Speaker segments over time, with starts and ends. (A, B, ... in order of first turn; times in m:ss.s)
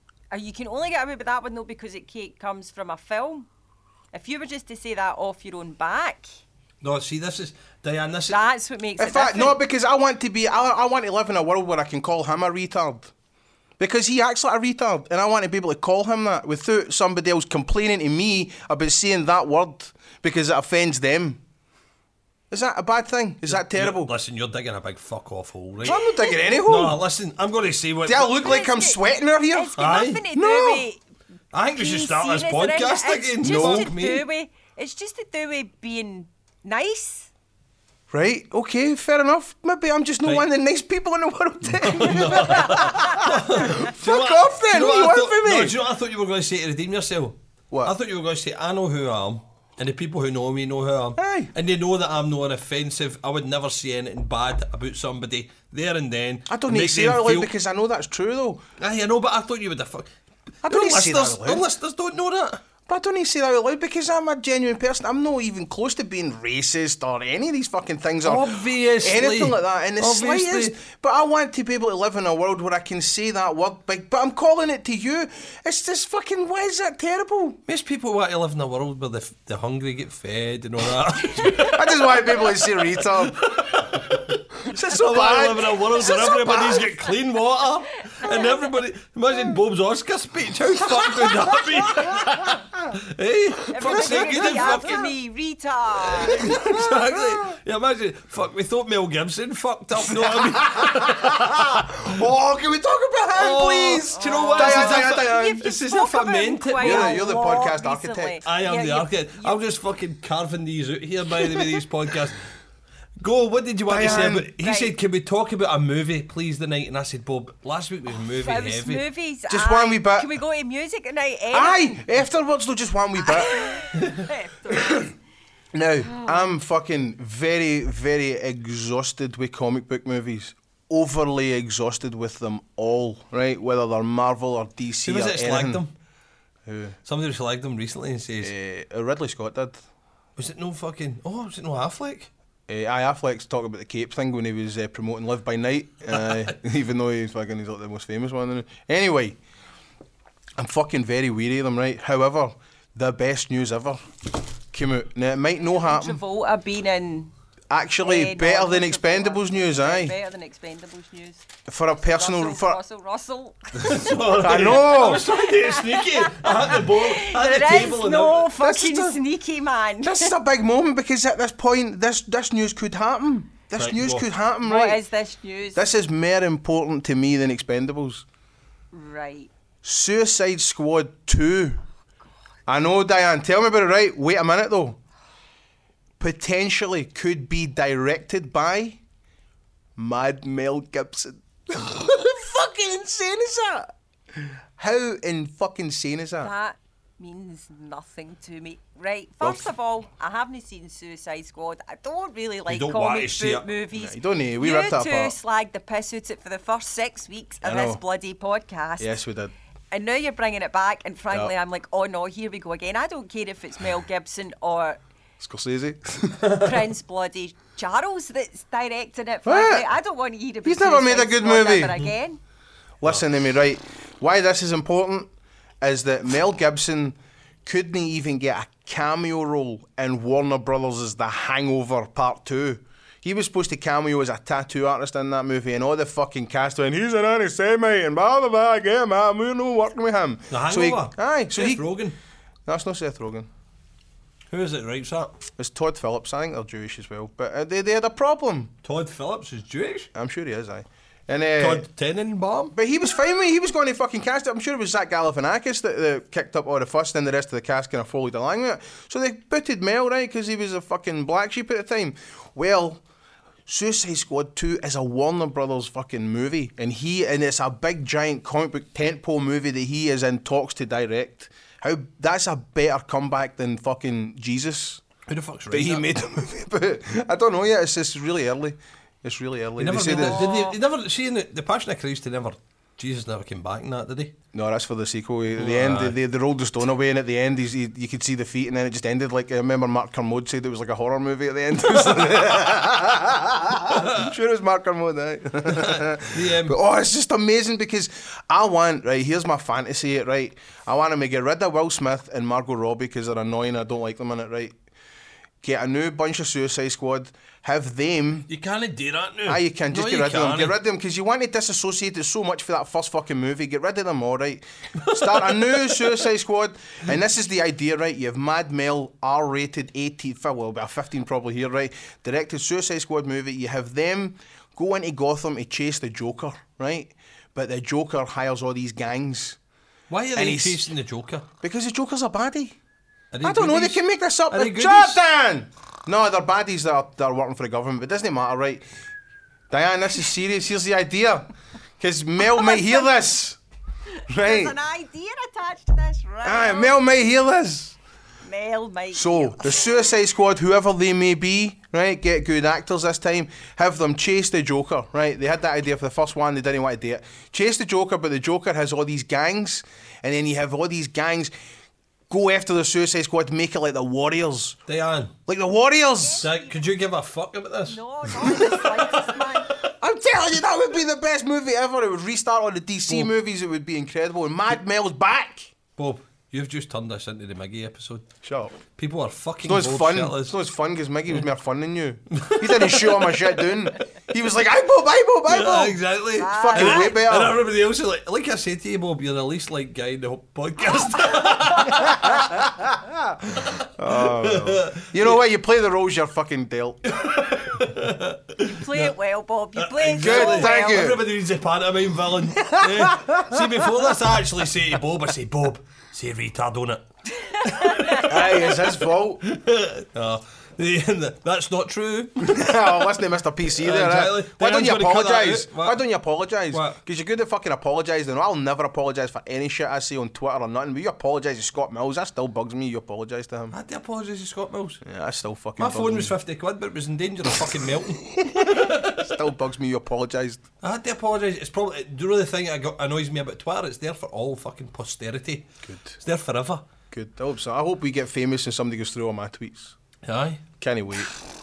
0:00.3-0:03.5 A
0:04.1-0:06.4 A
0:06.8-0:08.4 B
0:08.3-0:09.6 A
0:09.0-0:13.1 C
0:13.8-0:21.4 C
0:22.5-0:24.1 C
0:23.5-0:28.3 B
0:25.8-0:27.0 C
0:28.0-0:29.8 C
0:28.3-0:29.0 A
0:29.5-0:31.0 A
0:29.8-0:30.2 B
0:30.3-0:30.8 C
0:31.5-0:34.2 B
0:31.7-0:37.3 A
0:33.4-0:33.9 C
0:38.1-0:45.8 C
0:41.7-0:57.5 B
0:42.2-0:43.7 A
0:51.2-0:51.5 C
0:56.5-0:58.6 C
0:58.8-1:00.1 B
1:00.6-1:02.6 B
1:00.6-1:01.6 C
1:02.8-1:17.6 C
1:08.2-1:10.8 B
1:17.7-1:35.1 B
1:21.6-1:23.4 C
1:24.6-1:26.9 C
1:26.0-1:26.9 A
1:28.2-1:28.7 A
1:33.7-1:36.5 A
1:33.8-1:34.8 C
1:36.0-1:42.0 B
1:36.3-1:37.4 C
1:40.1-1:45.7 C
1:43.3-1:47.2 B
1:44.1-1:49.6 A
1:46.8-1:48.4 C
1:48.4-1:52.4 B
1:53.2-1:59.0 B
1:53.9-1:54.5 C
1:54.6-1:54.9 A
1:58.3-2:02.0 A
1:59.5-2:00.3 C
2:01.5-2:03.8 C
2:03.2-2:05.1 A
2:04.0-2:04.3 B
2:04.7-2:05.1 C
2:05.7-2:15.8 C
2:15.0-2:15.9 B
2:16.6-2:17.0 C
2:17.0-2:18.5 B
2:18.4-2:19.8 C
2:20.4-2:22.3 B
2:22.7-2:29.4 C
2:26.2-2:26.5 B
2:30.6-2:36.2 C
2:35.6-2:37.3 A
2:37.7-2:40.1 C
2:38.0-2:41.5 A
2:41.7-2:42.8 C
2:42.0-2:50.3 A
2:43.8-2:48.5 B
2:44.3-2:45.2 C
2:48.6-2:49.2 C
2:50.0-2:55.0 C
2:53.8-2:54.2 B
2:54.6-2:55.8 A
2:55.7-2:58.2 C
2:58.9-2:59.5 A
2:59.8-3:01.8 C
3:02.6-3:05.0 C
3:06.2-3:09.0 C
3:10.0-3:16.5 C
3:16.4-3:29.2 A
3:22.7-3:23.7 B
3:23.9-3:25.3 C
3:27.6-3:28.0 C
3:29.0-3:29.5 C
3:29.9-3:35.0 A
3:35.4-3:36.6 C
3:36.5-3:42.4 A
3:39.4-3:39.9 C
3:40.6-3:42.0 C
3:43.0-3:45.3 C
3:45.8-4:01.8 C
4:00.5-4:02.2 B
4:02.6-4:03.5 C
4:04.5-4:05.4 B
4:05.6-4:08.7 C
4:08.8-4:10.1 B
4:10.1-4:11.8 C
4:11.6-4:12.7 B
4:12.7-4:23.0 C
4:23.6-4:35.0 C
4:35.3-4:36.0 B
4:35.7-4:40.5 C
4:39.8-4:44.3 B
4:40.1-4:40.8 A
4:44.5-5:04.8 C
4:45.6-4:46.2 B
4:53.9-4:54.3 B
4:55.6-4:56.8 B
5:05.6-5:08.5 C
5:08.5-5:10.8 B
5:09.4-5:29.6 C
5:15.0-5:16.1 B
5:30.1-5:31.4 B
5:30.3-5:30.8 C
5:31.6-5:32.8 C
5:33.3-5:35.2 B
5:33.4-5:38.8 C
5:39.7-5:43.6 C
5:42.6-5:42.9 A
5:44.1-5:47.0 A
5:44.3-5:44.8 C
5:46.4-5:48.0 C
5:48.4-5:50.0 A
5:49.1-6:01.5 C
6:02.3-6:04.8 C
6:04.8-6:05.3 B
6:05.5-6:06.5 C
6:06.2-6:07.0 A
6:06.4-6:08.6 B
6:07.8-6:09.8 A
6:09.8-6:15.7 C
6:16.0-6:18.2 B
6:18.4-6:18.8 C
6:18.9-6:20.5 B
6:19.6-6:27.6 C
6:22.3-6:23.6 B
6:25.5-6:32.6 B
6:26.4-6:27.2 A
6:31.9-6:37.0 C
6:33.5-6:35.4 B
6:37.1-6:39.1 B
6:38.6-6:41.0 A
6:39.8-6:53.1 B
6:40.2-6:41.2 C
6:42.6-6:44.1 C
6:47.8-6:48.2 A
6:48.2-6:49.4 C
6:52.4-7:03.7 C
6:53.7-6:56.0 B
6:56.7-6:57.0 B
7:03.7-7:05.0 B
7:05.0-7:06.3 C
7:05.8-7:09.3 B
7:08.4-7:10.6 C
7:10.8-7:15.7 B
7:15.8-7:16.2 C
7:16.2-7:16.8 B
7:17.1-7:20.0 C
7:20.2-7:20.6 B
7:20.8-7:21.4 C